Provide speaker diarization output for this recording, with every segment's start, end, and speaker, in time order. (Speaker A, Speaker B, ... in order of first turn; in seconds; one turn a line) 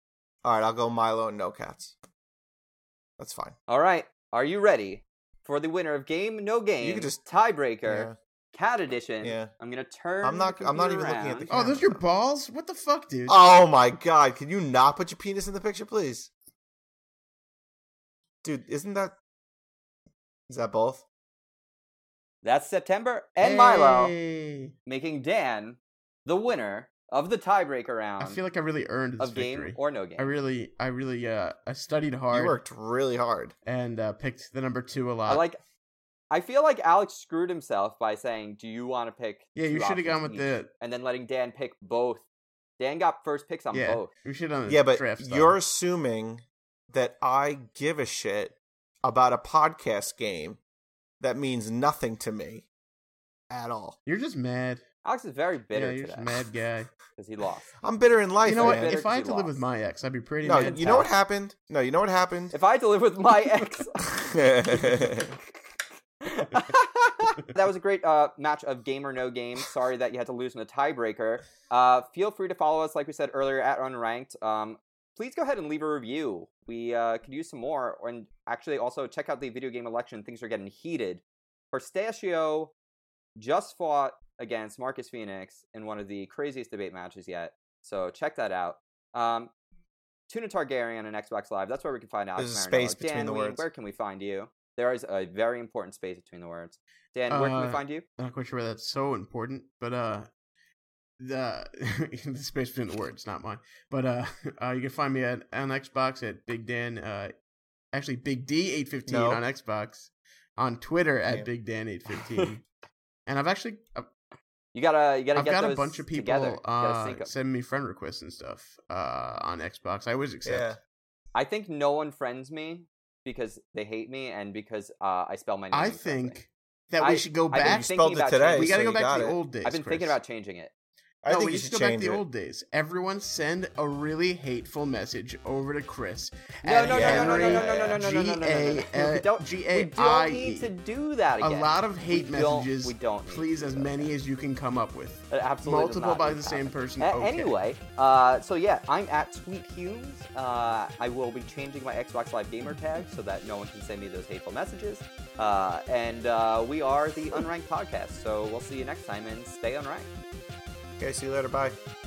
Speaker A: 0.4-1.9
Speaker A: 3.2-3.5
Speaker B: 3.7-11.5
Speaker A: 6.8-7.2
Speaker A: 7.8-8.1
Speaker A: 9.2-9.5
Speaker A: 10.2-12.0
Speaker C: 11.5-13.4
Speaker A: 13.3-16.3
Speaker A: 18.4-19.1
Speaker A: 20.5-21.0
Speaker B: 22.4-24.1
Speaker C: 23.4-24.7
Speaker B: 24.9-28.4
Speaker C: 28.2-32.6
Speaker B: 29.2-30.3
Speaker A: 32.3-33.5
Speaker C: 33.6-35.4
Speaker B: 35.3-35.6
Speaker B: 36.3-42.2
Speaker C: 39.5-40.7
Speaker B: 42.8-44.1
Speaker C: 43.7-45.5
Speaker A: 44.7-50.6
Speaker A: 51.2-52.6
Speaker A: 53.5-54.0
Speaker C: 54.0-54.8
Speaker B: 55.0-56.4
Speaker C: 55.7-56.9
Speaker B: 57.2-57.7
Speaker A: 57.8-59.0
Speaker C: 58.5-61.1
Speaker B: 58.5-59.5
Speaker A: 60.4-62.5
Speaker B: 62.5-64.0
Speaker A: 64.0-65.4
Speaker B: 66.2-82.7
Speaker B: 83.4-89.5
Speaker B: 90.3-98.0
Speaker A: 92.4-93.6
Speaker C: 97.3-100.3
Speaker C: 101.2-107.3
Speaker C: 107.9-112.6
Speaker A: 109.1-109.4
Speaker C: 113.3-114.1
Speaker B: 114.7-117.3
Speaker C: 115.3-120.8
Speaker A: 120.4-120.8
Speaker B: 121.3-126.4
Speaker C: 125.7-127.9
Speaker B: 127.0-128.8
Speaker A: 127.6-129.4
Speaker C: 128.5-130.2
Speaker B: 129.6-130.7
Speaker A: 131.2-132.2
Speaker C: 131.3-140.7
Speaker B: 136.6-144.1
Speaker A: 136.9-138.0
Speaker C: 141.4-147.5
Speaker B: 145.3-160.1
Speaker A: 161.0-161.8